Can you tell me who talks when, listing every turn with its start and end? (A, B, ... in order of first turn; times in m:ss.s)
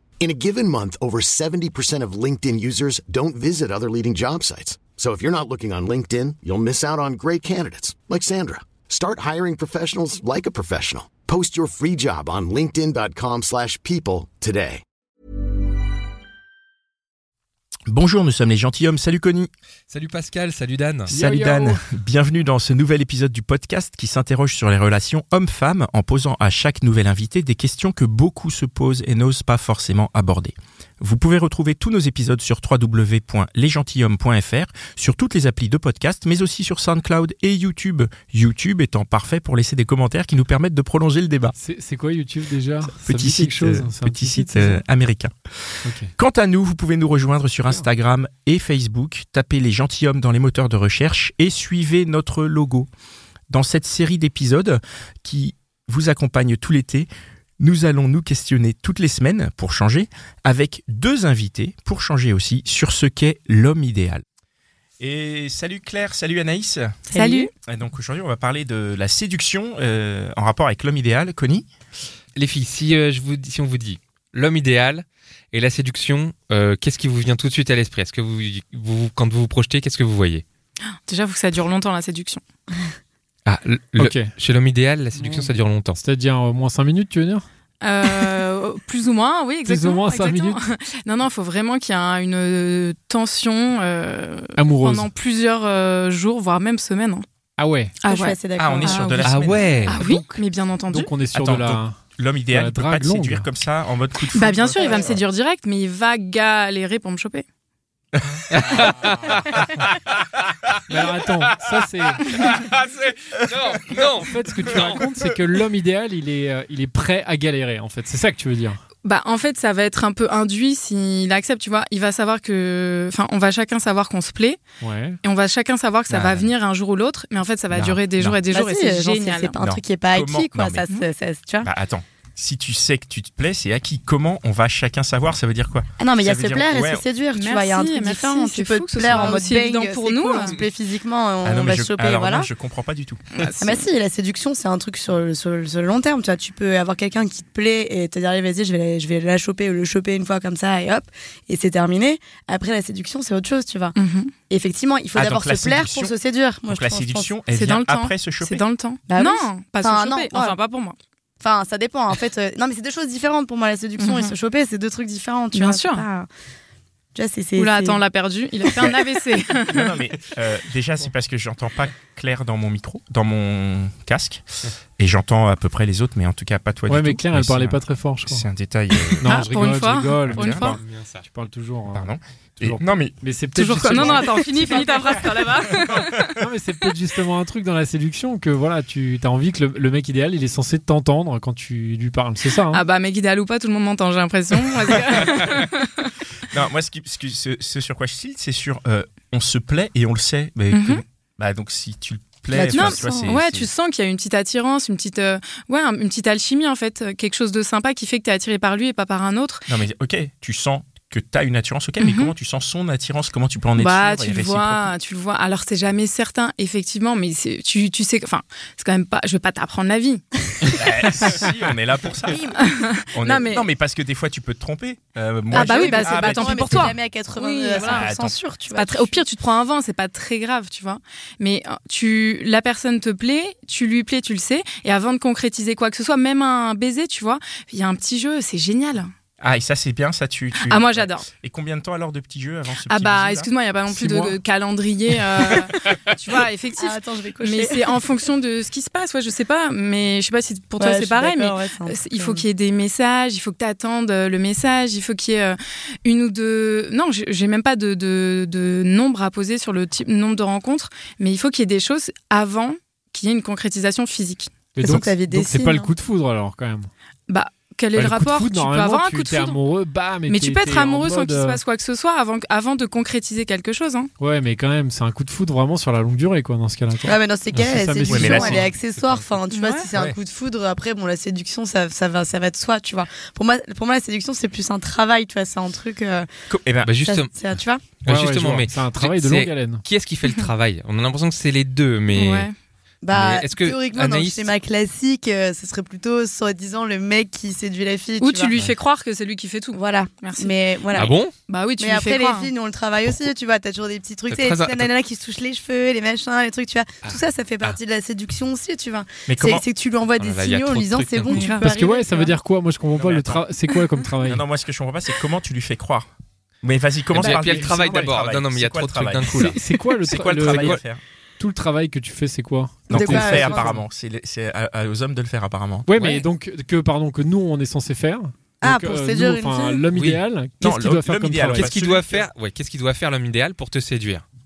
0:00.2-0:14.8 A
0:17.9-0:19.5 B
0:19.9-0:21.1 C
0:21.1-0:21.8 D
0:21.1-0:41.6 B
0:41.6-0:44.8 D
0:42.9-0:45.4 B
0:45.8-0:46.1 D
0:46.1-0:52.9 B
0:53.5-1:04.2 B
1:05.0-1:07.0 B
1:07.1-1:07.5 E
1:07.1-1:07.5 F
1:07.6-1:11.7 B
1:12.4-1:20.4 C
1:21.1-1:22.4 F
1:23.4-1:26.0 C
1:24.0-1:24.3 D
1:25.2-1:27.4 D
1:27.8-1:37.2 F
1:29.6-1:30.6 D
1:34.6-1:35.1 D
1:37.6-1:38.0 D
1:38.0-1:39.2 F
1:38.0-1:39.6 E
1:38.6-1:39.8 B
1:39.2-1:40.0 C
1:39.8-1:41.1 F
1:39.9-1:43.4 D
1:41.3-1:45.2 B
1:44.3-1:47.4 F
1:44.8-1:45.1 E
1:48.1-1:49.1 B
1:48.5-1:50.4 C
1:50.9-1:52.3 D
1:52.2-1:55.3 C
1:54.2-1:58.8 D
1:59.0-2:04.6 F
2:04.8-2:05.2 D
2:05.2-2:09.6 F
2:06.1-2:06.5 B
2:07.7-2:08.4 B
2:08.5-2:11.7 E
2:09.6-2:10.8 B
2:11.6-2:17.0 B
2:16.0-2:22.5 E
2:17.3-2:20.5 F
2:21.4-2:23.2 B
2:23.3-2:23.8 F
2:23.6-2:34.0 E
2:34.0-2:34.3 F
2:34.5-2:37.3 E
2:35.1-2:36.1 B
2:36.7-2:38.6 B
2:37.5-2:41.0 F
2:39.1-2:40.6 E
2:41.4-2:46.3 E
2:44.0-2:44.3 F
2:45.5-2:46.0 F
2:47.1-2:48.0 E
2:47.6-2:49.9 F
2:49.7-2:54.4 B
2:55.0-2:59.4 B
2:56.9-3:05.3 D
2:59.2-3:00.8 F
3:00.2-3:00.8 B
3:00.8-3:01.2 C
3:01.9-3:03.2 B
3:03.5-3:06.3 F
3:03.8-3:04.2 B
3:06.4-3:12.8 D
3:12.7-3:16.1 F
3:14.9-3:15.7 B
3:16.5-3:23.7 B
3:20.7-3:21.0 F
3:22.5-3:23.3 E
3:22.7-3:29.6 F
3:29.7-3:34.9 B
3:32.0-3:32.3 F
3:33.8-3:40.2 F
3:40.6-3:42.5 B
3:42.3-3:42.6 E
3:42.6-3:43.6 F
3:43.1-3:46.9 B
3:45.5-3:48.2 F
3:45.5-3:49.2 E
3:47.8-3:48.3 B
3:48.7-3:59.1 F
3:59.4-4:03.5 B
4:00.6-4:01.3 F
4:02.9-4:24.5 F
4:03.9-4:04.4 D
4:06.8-4:07.9 E
4:10.8-4:12.4 E
4:24.7-4:26.9 D
4:24.8-4:25.9 E
4:27.3-4:29.6 F
4:27.9-4:31.6 D
4:30.3-4:34.1 F
4:34.2-4:38.7 D
4:37.0-4:46.3 E
4:38.1-4:38.7 B
4:38.4-4:39.4 C
4:39.5-4:39.9 F
4:46.5-4:46.9 B
4:46.8-4:47.4 C
4:47.0-4:47.9 E
4:48.0-4:52.5 C
4:48.0-4:49.8 D
4:52.1-4:52.5 F
4:53.0-4:58.5 E
4:53.1-4:54.5 C
4:58.2-5:02.5 F
4:59.7-5:01.1 E
5:00.9-5:01.3 C
5:01.8-5:12.3 E
5:04.3-5:04.9 C
5:07.0-5:07.8 C
5:09.3-5:09.6 B
5:10.2-5:11.5 C
5:11.3-5:11.6 F
5:11.4-5:14.4 D
5:12.9-5:13.4 B
5:14.2-5:16.1 B
5:16.6-5:21.0 B
5:17.1-5:19.6 C
5:17.2-5:17.7 D
5:19.3-5:20.8 D
5:20.1-5:20.8 C
5:21.4-5:23.8 D
5:22.9-5:23.8 E
5:22.9-5:26.2 B
5:25.8-5:31.7 D
5:28.6-5:29.8 E
5:29.9-5:30.2 C
5:30.6-5:32.3 B
5:31.5-5:34.2 C